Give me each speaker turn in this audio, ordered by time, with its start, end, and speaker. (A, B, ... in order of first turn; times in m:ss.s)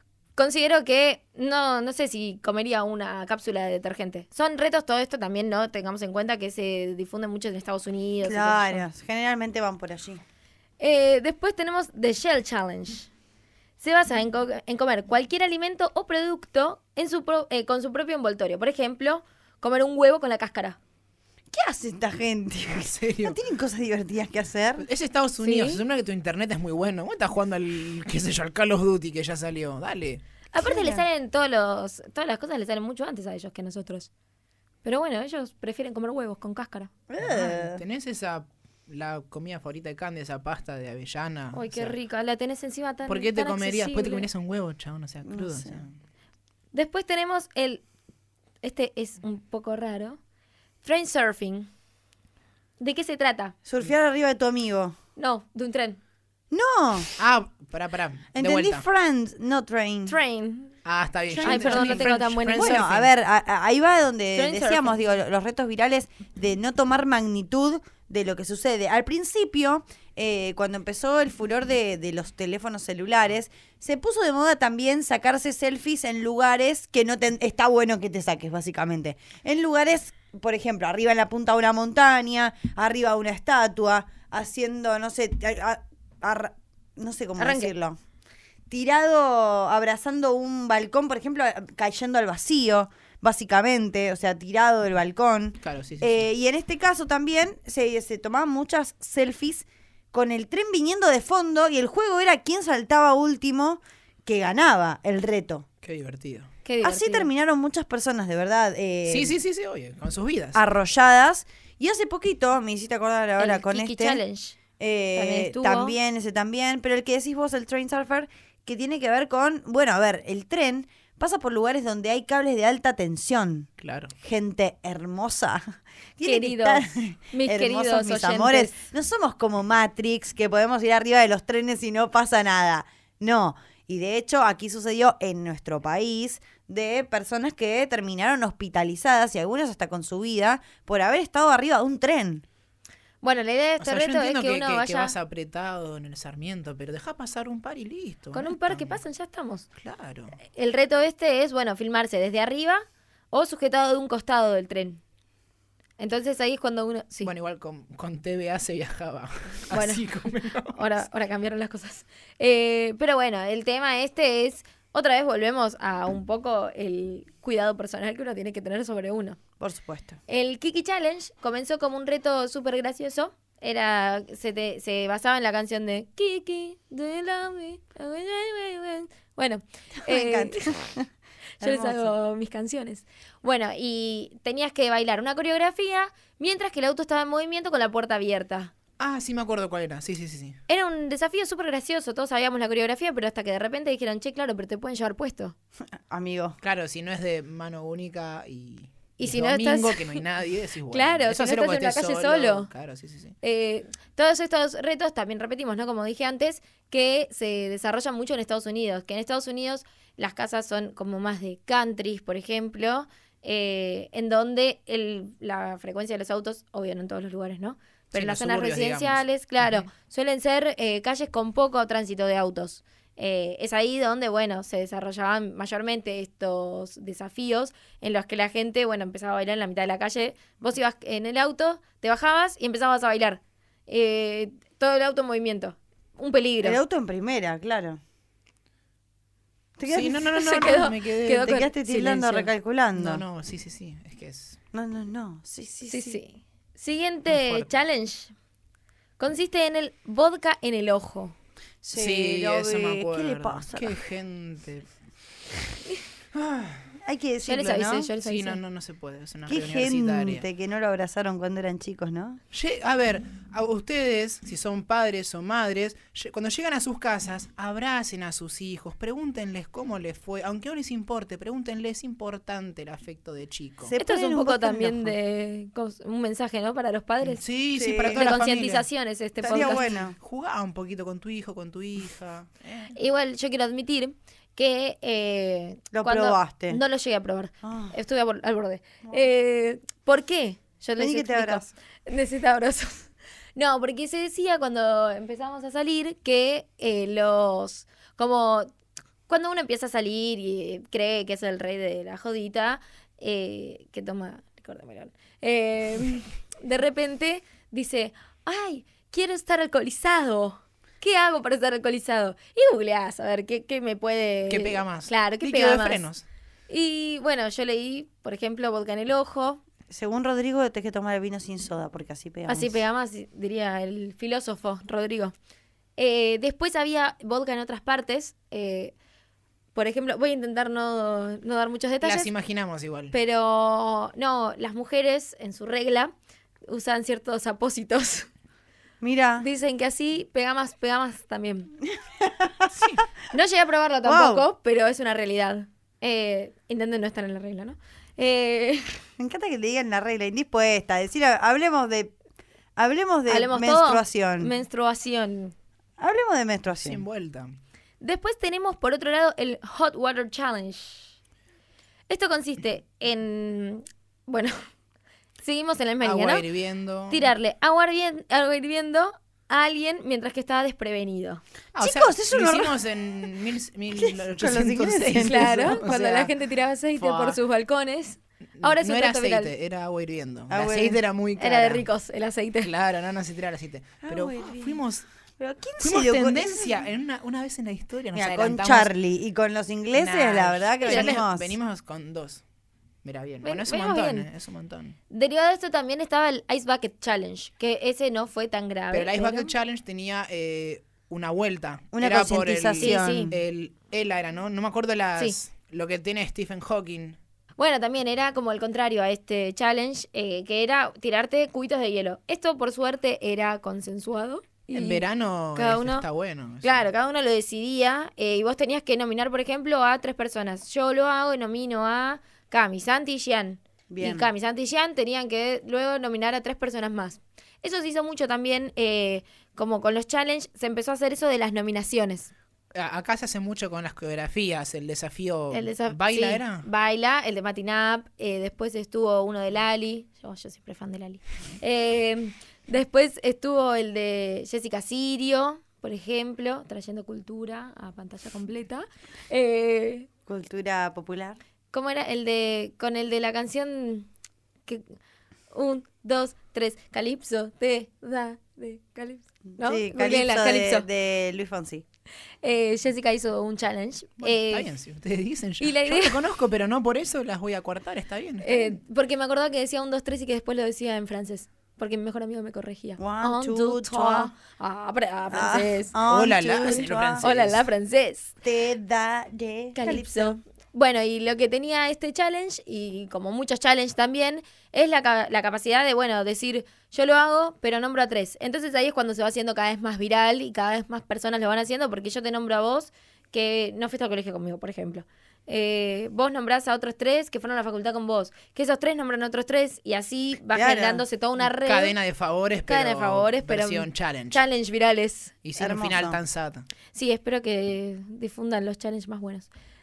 0:00.4-0:08.8 A
0:08.2-0:10.2 B
0:10.8-0:13.1 A
0:13.8-0:20.8 A
0:21.5-0:24.8 B
0:22.8-0:23.4 C
0:24.8-0:30.2 C
0:25.4-0:25.8 A
0:30.5-0:34.1 A
0:30.6-0:31.0 B
0:34.8-0:36.9 A
0:37.1-0:37.8 B
0:37.2-0:42.0 C
0:41.5-0:44.3 A
0:43.1-0:45.9 C
0:45.3-0:45.8 B
0:46.7-0:47.8 A
0:48.6-0:50.2 A
0:50.8-0:51.7 A
0:52.8-0:53.5 A
0:53.6-0:55.0 B
0:55.2-0:56.0 A
0:56.5-0:57.1 B
0:57.2-0:58.8 C
0:58.3-1:00.2 B
1:00.1-1:00.7 A
1:00.8-1:03.1 C
1:01.3-1:28.0 B
1:01.4-1:02.8 A
1:04.3-1:05.0 A
1:27.4-1:27.7 A
1:28.7-1:45.6 B
1:35.6-1:36.2 C
1:45.8-1:46.5 C
1:46.6-1:47.3 A
1:46.8-1:49.3 B
1:49.1-1:50.6 C
1:50.5-1:54.2 B
1:53.4-1:54.6 A
1:54.8-2:03.7 B
1:55.1-1:55.9 A
2:03.8-2:04.1 C
2:04.2-2:22.4 B
2:06.2-2:08.8 A
2:23.2-2:25.1 A
2:23.8-2:29.0 C
2:28.3-2:29.6 A
2:29.8-2:30.3 C
2:30.5-2:35.0 A
2:36.0-2:37.3 A
2:37.2-2:40.8 C
2:39.7-2:40.0 A
2:40.7-2:49.4 A
2:49.6-2:50.2 B
2:50.3-3:00.8 A
3:00.0-3:01.1 B
3:01.6-3:02.1 B
3:01.6-3:08.7 A
3:09.0-3:10.6 C
3:10.7-3:15.5 A
3:16.0-3:16.6 B
3:16.6-3:23.3 C
3:19.2-3:20.2 A
3:20.9-3:22.7 A
3:23.4-3:56.8 A
3:38.1-3:39.9 C
3:56.6-3:58.0 B
3:59.8-4:00.3 B
3:59.9-4:04.6 C
4:00.4-4:01.7 A
4:01.4-4:03.2 B
4:04.7-4:06.2 B
4:05.9-4:08.3 A
4:07.3-4:07.7 C
4:09.2-4:11.3 A
4:11.8-4:13.9 B
4:11.9-4:14.9 C
4:16.3-4:16.9 C
4:17.0-4:18.1 B
4:17.4-4:18.6 A
4:18.2-4:20.4 C
4:19.5-4:22.4 B
4:22.5-4:33.9 C
4:33.8-4:35.2 B
4:34.0-4:37.4 A
4:37.2-4:38.8 C
4:37.7-4:38.2 B
4:38.1-4:39.9 A
4:39.4-4:40.2 B
4:39.4-4:42.9 C
4:42.9-4:58.7 A
4:45.9-4:46.8 B
4:47.6-4:47.9 B
4:51.0-4:51.7 B
4:59.3-5:16.0 A
5:14.5-5:16.2 C
5:16.7-5:19.6 A
5:19.9-5:22.8 B
5:22.5-5:25.3 A
5:26.0-5:28.9 A
5:29.7-5:32.3 A
5:32.0-5:33.1 C
5:33.1-5:36.1 A
5:36.7-5:38.3 A
5:39.0-5:39.4 B
5:39.4-5:41.7 A
5:42.1-5:42.8 B
5:43.3-5:49.0 A
5:44.0-5:44.5 B
5:49.2-5:52.1 B
5:52.8-5:54.5 B
5:53.3-5:55.5 A
5:56.0-5:57.0 B
5:56.7-5:57.5 C
5:58.0-6:01.1 A
6:02.1-6:04.6 A
6:05.4-6:06.4 A
6:06.0-6:07.3 C
6:07.1-6:11.4 A
6:11.7-6:16.3 C
6:11.8-6:12.8 B
6:14.0-6:15.8 B
6:15.2-6:19.5 A
6:17.0-6:17.4 C
6:18.6-6:21.8 C
6:20.5-6:21.0 B
6:21.4-6:22.7 A
6:22.6-6:25.0 C
6:24.0-6:24.8 B
6:25.4-6:26.8 B
6:25.8-6:28.9 C
6:28.1-6:31.6 B
6:29.9-6:32.4 C
6:30.8-6:31.2 A
6:33.0-6:35.0 C
6:33.4-6:34.3 A
6:35.1-6:39.5 A
6:38.9-6:47.2 C
6:41.9-6:43.4 B
6:42.8-6:43.3 A
6:47.6-6:55.0 A
6:54.7-6:56.8 C
6:55.5-6:56.0 A
6:56.6-7:12.3 A
7:03.9-7:04.3 B
7:12.7-7:16.6 C
7:15.5-7:30.1 A
7:30.3-7:31.4 B
7:31.7-7:34.1 A
7:35.5-7:40.8 A
7:39.6-7:41.8 B
7:42.4-7:44.7 A
7:44.2-7:48.7 C
7:45.6-7:46.2 A
7:48.4-7:56.0 A
7:53.0-7:54.3 B
7:55.3-7:57.3 B
7:56.1-7:57.6 C
7:56.6-7:58.3 A
7:58.4-8:00.3 B
7:59.7-8:21.9 A
8:20.5-8:21.0 B
8:21.4-8:24.4 C
8:22.7-8:25.3 A
8:25.4-8:26.6 C
8:25.6-8:26.2 B
8:26.9-8:29.5 A